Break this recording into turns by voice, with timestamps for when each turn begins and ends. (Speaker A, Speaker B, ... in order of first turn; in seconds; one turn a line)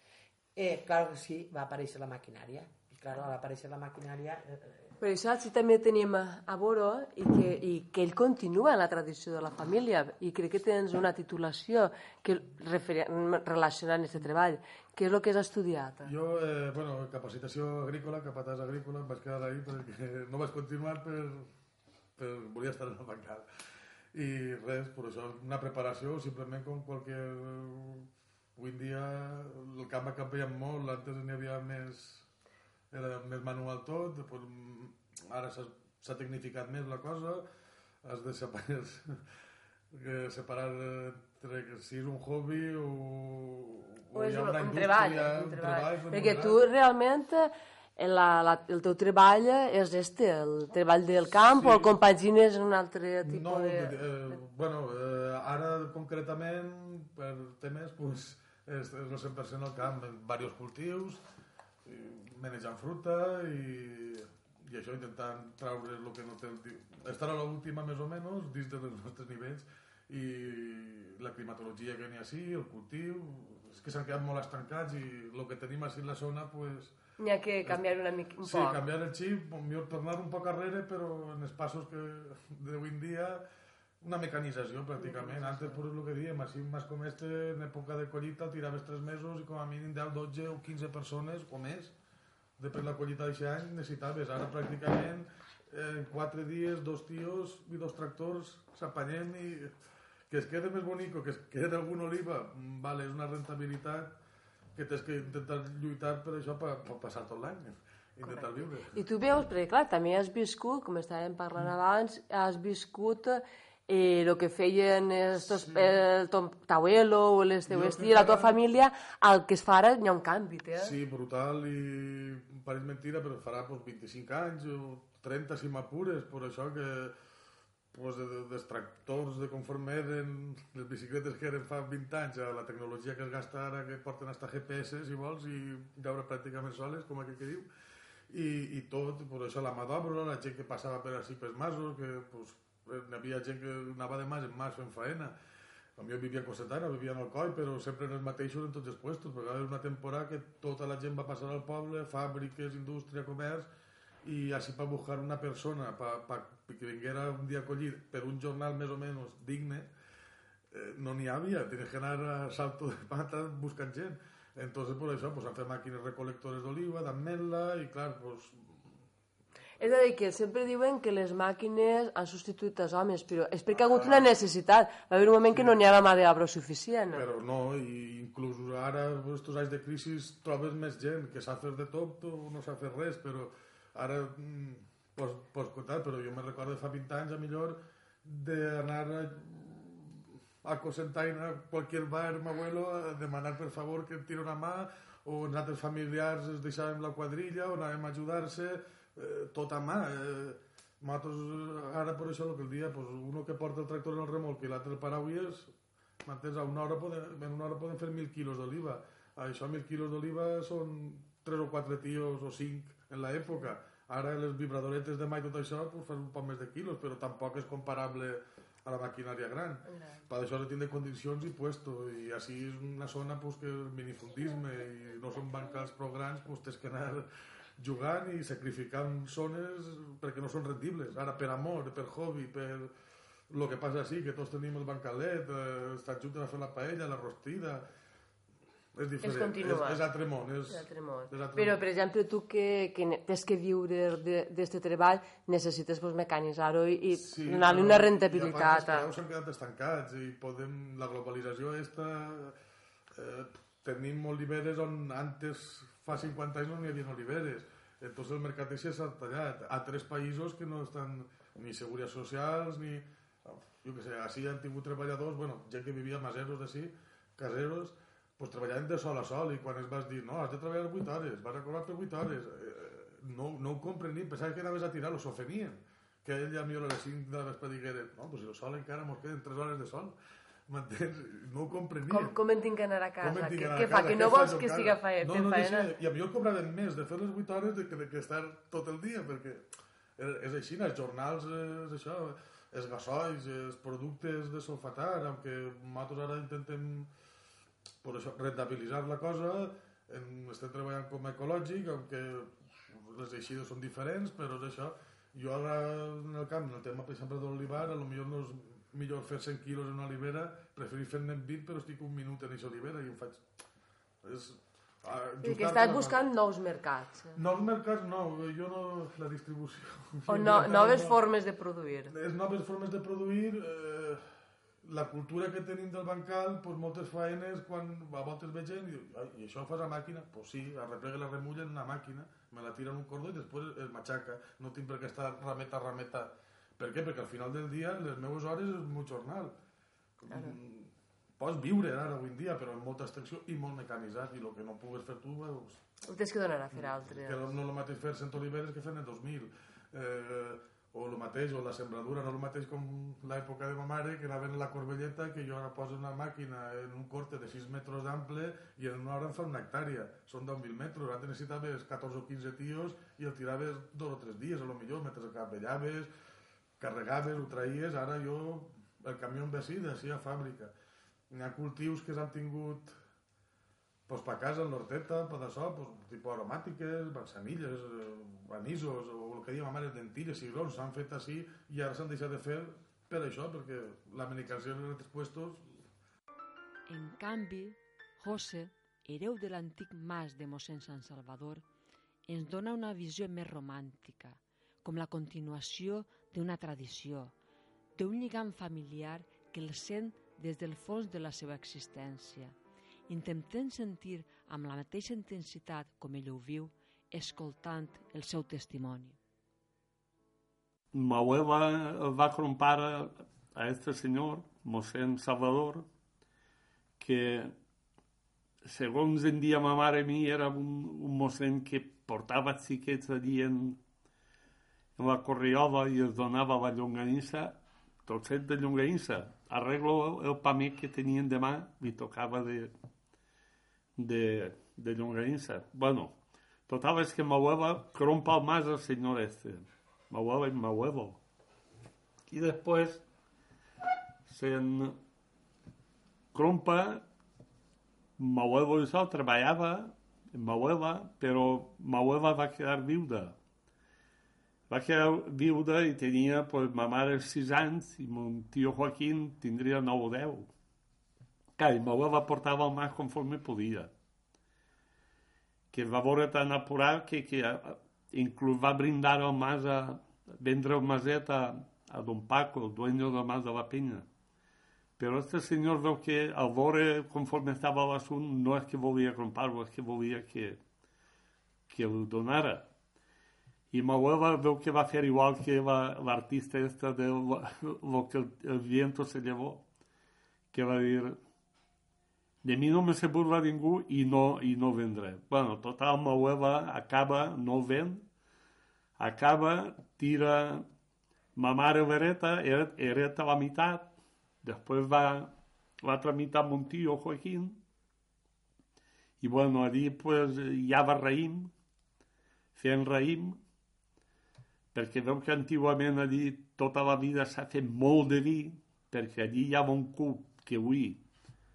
Speaker A: 0.6-4.9
Speaker B: 5.0-16.1
Speaker C: 16.0-21.5
Speaker C: 22.2-23.5
Speaker C: 24.1-32.3
Speaker C: 32.9-37.5
Speaker C: 38.0-39.2
Speaker C: 39.9-46.6
Speaker B: 44.1-54.4
Speaker C: 51.5-51.9
Speaker C: 53.2-61.2
Speaker C: 61.9-77.0
Speaker B: 77.2-78.8
Speaker C: 78.4-83.4
Speaker C: 84.0-91.9
Speaker B: 85.0-85.8
Speaker C: 92.6-99.7
Speaker C: 100.3-104.2
Speaker C: 104.8-109.0
Speaker B: 108.2-120.9
Speaker C: 115.5-116.0
Speaker C: 117.7-118.6
Speaker C: 120.8-127.2
Speaker C: 127.9-137.7
Speaker C: 138.3-145.3
Speaker C: 146.0-153.7
Speaker C: 154.2-159.9
Speaker C: 160.7-168.8
Speaker B: 169.8-177.2
Speaker C: 173.7-174.3
Speaker C: 175.5-175.8
Speaker C: 177.1-205.7
Speaker C: 206.2-227.3
Speaker B: 219.9-220.2
Speaker C: 227.8-232.9
Speaker C: 233.5-237.8
Speaker C: 238.9-241.8
Speaker B: 239.2-240.1
Speaker B: 240.7-249.1
Speaker C: 247.1-252.6
Speaker C: 253.1-280.2
Speaker C: 280.7-282.4
Speaker B: 282.1-285.9
Speaker C: 283.2-289.6
Speaker C: 290.2-297.1
Speaker C: 298.0-313.4
Speaker C: 314.2-316.3
Speaker B: 315.4-317.4
Speaker C: 317.4-321.2
Speaker B: 320.3-322.1
Speaker C: 322.1-324.2
Speaker C: 324.9-339.6
Speaker C: 340.2-345.8
Speaker B: 340.3-340.6
Speaker B: 346.1-347.5
Speaker C: 346.7-366.1
Speaker C: 366.8-370.7
Speaker C: 371.3-372.9
Speaker C: 374.1-385.7
Speaker D: 386.9-391.6
Speaker D: 392.3-397.3
Speaker D: 398.0-402.6
Speaker D: 403.1-409.2
Speaker E: 410.9-415.9
Speaker E: 417.0-417.5
Speaker E: 418.6-423.8
Speaker E: 425.0-432.7
Speaker E: 434.0-436.2
Speaker E: 436.7-441.2
Speaker E: 442.3-443.0
Speaker E: 444.3-445.0
Speaker E: 446.3-447.1
Speaker E: 448.2-453.4
Speaker E: 454.7-460.5
Speaker E: 461.6-463.9
Speaker E: 465.7-474.1
Speaker E: 475.0-480.6
Speaker E: 481.7-482.7
Speaker E: 483.7-489.6
Speaker E: 490.5-491.2
Speaker E: 492.4-498.1
Speaker E: 499.0-500.7
Speaker E: 501.4-507.6
Speaker E: 509.2-511.5
Speaker E: 512.6-513.4
Speaker E: 514.7-521.0